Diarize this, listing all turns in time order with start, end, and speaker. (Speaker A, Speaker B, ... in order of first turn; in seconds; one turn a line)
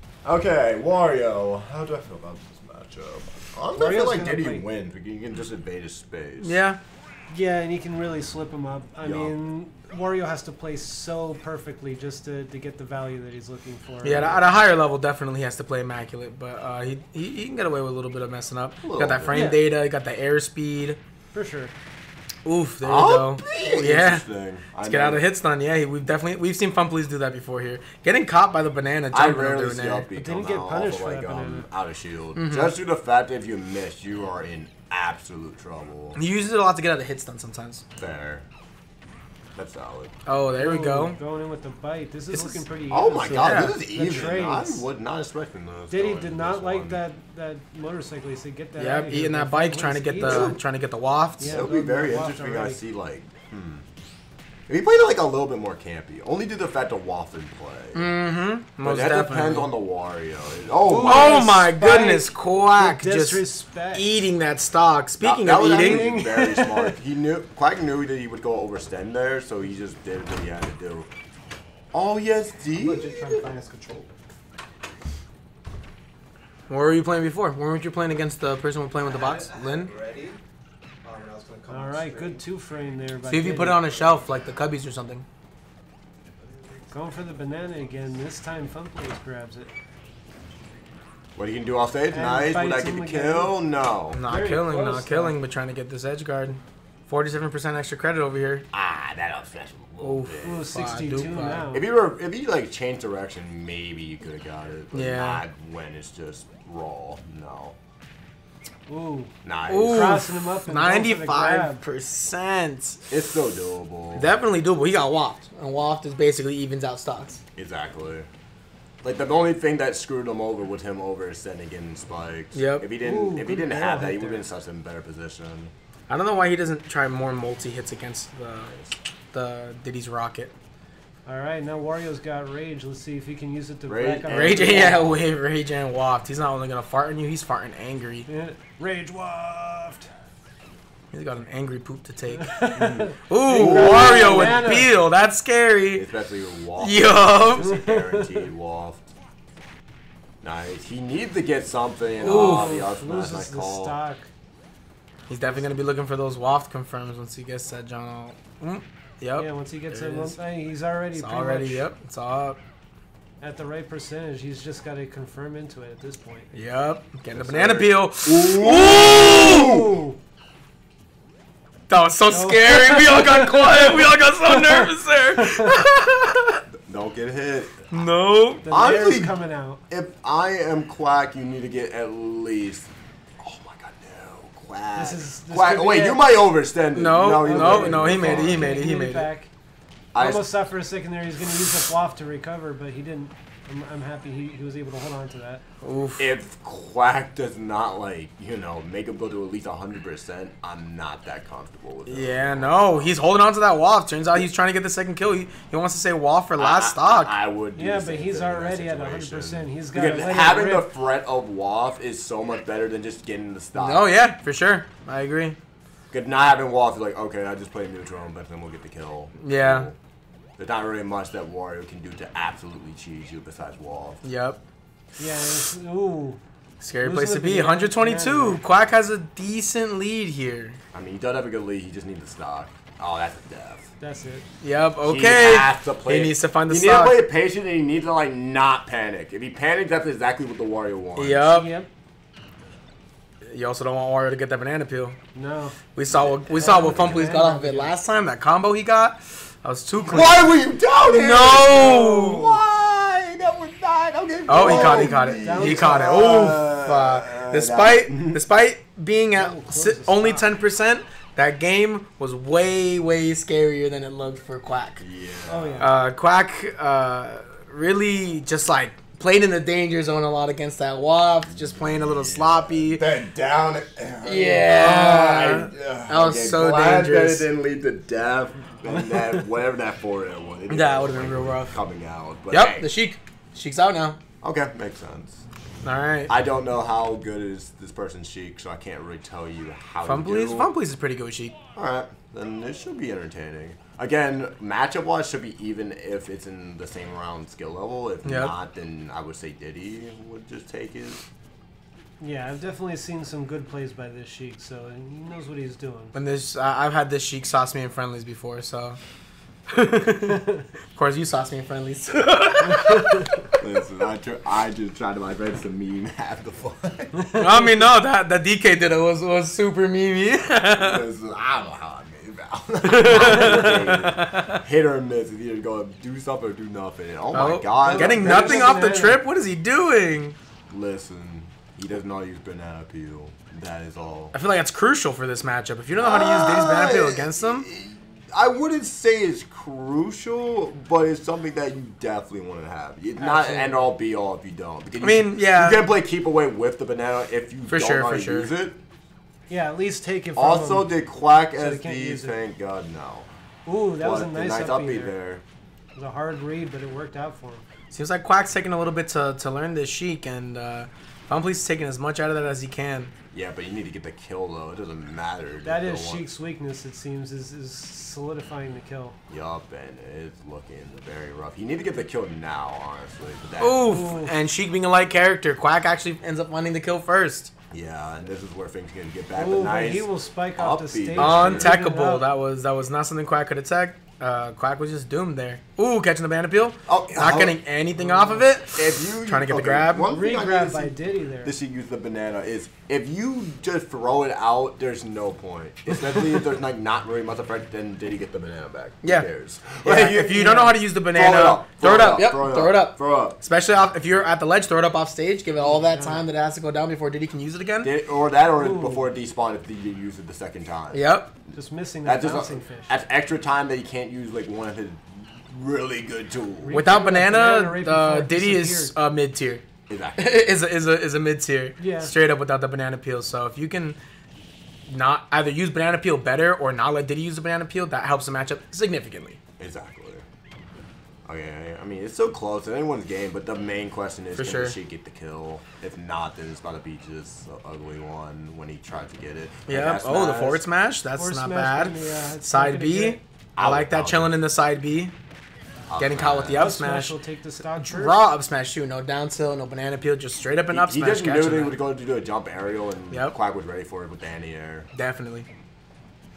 Speaker A: 0.2-6.6
Speaker B: 3.7-4.7
Speaker C: 6.4-6.8
Speaker B: 7.3-14.5
Speaker A: 9.0-9.3
Speaker C: 14.0-21.0
Speaker A: 18.8-19.5
Speaker B: 19.3-19.6
Speaker B: 21.3-21.7
Speaker C: 22.4-24.3
Speaker A: 22.8-25.3
Speaker C: 24.8-30.1
Speaker A: 29.1-36.2
Speaker B: 30.1-31.7
Speaker C: 32.3-32.7
Speaker C: 36.2-37.8
Speaker A: 38.0-38.5
Speaker A: 39.5-40.1
Speaker C: 40.2-41.2
Speaker B: 40.6-44.9
Speaker C: 42.3-42.6
Speaker A: 42.9-47.0
Speaker C: 43.2-43.8
Speaker B: 45.9-50.6
Speaker C: 48.8-51.7
Speaker A: 50.2-50.6
Speaker B: 51.4-52.8
Speaker A: 51.4-53.8
Speaker A: 54.7-58.1
Speaker C: 57.9-59.7
Speaker A: 58.8-61.5
Speaker B: 60.8-64.2
Speaker C: 61.0-66.1
Speaker A: 65.2-71.1
Speaker B: 65.7-66.9
Speaker A: 71.9-73.5
Speaker D: 72.7-74.1
Speaker C: 76.7-79.9
Speaker D: 79.0-80.4
Speaker D: 81.0-82.4
Speaker B: 81.7-83.9
Speaker C: 83.3-85.2
Speaker B: 86.9-89.7
Speaker A: 91.4-94.2
Speaker B: 92.1-93.6
Speaker C: 94.1-98.7
Speaker B: 94.2-95.4
Speaker A: 98.7-100.8
Speaker C: 100.0-101.7
Speaker B: 100.4-101.9
Speaker A: 101.7-107.8
Speaker C: 104.9-105.4
Speaker B: 108.9-111.8
Speaker A: 109.4-110.2
Speaker C: 109.7-113.1
Speaker A: 113.1-114.3
Speaker C: 114.2-117.4
Speaker A: 117.6-118.3
Speaker A: 119.0-125.7
Speaker C: 122.5-122.9
Speaker B: 123.0-124.5
Speaker C: 126.1-128.7
Speaker A: 128.6-128.9
Speaker C: 129.3-130.5
Speaker B: 131.2-135.0
Speaker A: 133.9-135.3
Speaker C: 134.3-138.3
Speaker B: 138.3-140.1
Speaker C: 141.1-146.1
Speaker B: 142.4-144.9
Speaker A: 142.8-144.7
Speaker A: 145.9-149.1
Speaker C: 146.8-147.7
Speaker B: 147.6-148.5
Speaker A: 150.4-154.0
Speaker C: 152.2-152.8
Speaker B: 152.2-154.3
Speaker C: 155.3-159.5
Speaker B: 159.4-161.9
Speaker A: 159.9-160.3
Speaker C: 161.1-162.6
Speaker B: 163.4-166.5
Speaker C: 166.5-169.8
Speaker A: 167.3-169.9
Speaker B: 169.3-170.2
Speaker C: 171.9-176.6
Speaker B: 172.3-175.8
Speaker A: 176.8-178.0
Speaker C: 177.9-178.7
Speaker B: 178.6-179.8
Speaker A: 178.7-179.3
Speaker A: 179.9-188.8
Speaker B: 184.9-186.2
Speaker C: 186.9-189.3
Speaker B: 187.4-189.5
Speaker A: 190.1-190.4
Speaker B: 190.2-195.6
Speaker C: 195.8-196.3
Speaker A: 196.2-203.2
Speaker C: 202.1-207.3
Speaker A: 206.6-214.1
Speaker B: 207.8-210.9
Speaker C: 213.8-215.6
Speaker A: 216.1-219.9
Speaker C: 219.4-219.9
Speaker A: 220.6-224.2
Speaker C: 224.2-224.6
Speaker B: 225.2-226.4
Speaker C: 226.8-230.8
Speaker B: 227.0-228.6
Speaker A: 230.9-233.9
Speaker B: 234.0-234.4
Speaker C: 234.6-237.2
Speaker A: 235.0-241.5
Speaker C: 241.2-241.7
Speaker B: 241.5-241.9
Speaker C: 243.5-245.2
Speaker B: 245.3-245.8
Speaker C: 245.9-250.5
Speaker A: 246.1-247.2
Speaker B: 246.5-248.0
Speaker A: 250.1-258.4
Speaker C: 251.1-252.6
Speaker C: 254.5-265.0
Speaker B: 254.6-256.4
Speaker B: 259.3-260.5
Speaker A: 265.0-265.9
Speaker B: 265.5-265.9
Speaker C: 265.8-273.1
Speaker A: 271.5-282.9
Speaker C: 274.2-277.4
Speaker C: 280.7-281.7
Speaker C: 282.5-284.2
Speaker A: 284.4-285.4
Speaker C: 285.8-286.3
Speaker A: 286.3-290.7
Speaker C: 290.0-291.6
Speaker A: 291.8-301.2
Speaker C: 298.2-298.5
Speaker B: 302.2-306.1
Speaker C: 306.1-309.0
Speaker C: 309.7-310.4
Speaker B: 310.3-310.6
Speaker C: 310.9-313.5
Speaker B: 312.7-313.1
Speaker A: 313.6-317.2
Speaker B: 317.2-317.6
Speaker C: 317.4-321.0
Speaker A: 320.8-329.0
Speaker C: 322.8-324.6
Speaker C: 327.3-330.3
Speaker B: 327.8-329.2
Speaker A: 330.7-334.3
Speaker C: 334.3-337.6
Speaker A: 335.9-348.8
Speaker B: 343.2-343.9
Speaker C: 345.0-345.9
Speaker C: 347.7-348.5
Speaker B: 349.5-350.9
Speaker A: 350.3-353.3
Speaker B: 351.5-352.4
Speaker B: 353.6-355.1
Speaker A: 354.0-355.4
Speaker B: 355.9-357.6
Speaker C: 357.9-363.1
Speaker A: 363.3-366.3
Speaker B: 365.6-369.2
Speaker A: 369.3-373.9
Speaker C: 373.6-377.5
Speaker B: 373.8-374.4
Speaker A: 377.7-381.8
Speaker B: 379.3-382.3
Speaker C: 381.1-390.1
Speaker A: 386.9-387.6
Speaker B: 388.0-388.4
Speaker A: 388.6-403.4
Speaker B: 390.1-391.6
Speaker C: 396.0-396.3
Speaker C: 399.0-407.9
Speaker B: 405.6-406.2
Speaker A: 407.8-411.0
Speaker B: 408.6-409.1
Speaker C: 410.9-411.3
Speaker B: 411.5-413.0
Speaker A: 412.1-416.8
Speaker B: 416.6-418.9
Speaker C: 416.7-419.6
Speaker A: 419.9-420.6
Speaker C: 420.2-424.0
Speaker B: 421.8-422.1
Speaker C: 424.9-429.4
Speaker A: 429.6-430.2
Speaker A: 431.2-440.6
Speaker C: 434.4-434.7
Speaker C: 439.7-445.1
Speaker B: 441.1-443.2
Speaker A: 443.6-444.4
Speaker A: 445.9-446.6
Speaker C: 446.0-447.2
Speaker B: 446.5-448.2
Speaker C: 447.8-451.8
Speaker A: 450.7-454.9
Speaker C: 453.1-453.4
Speaker C: 454.9-455.5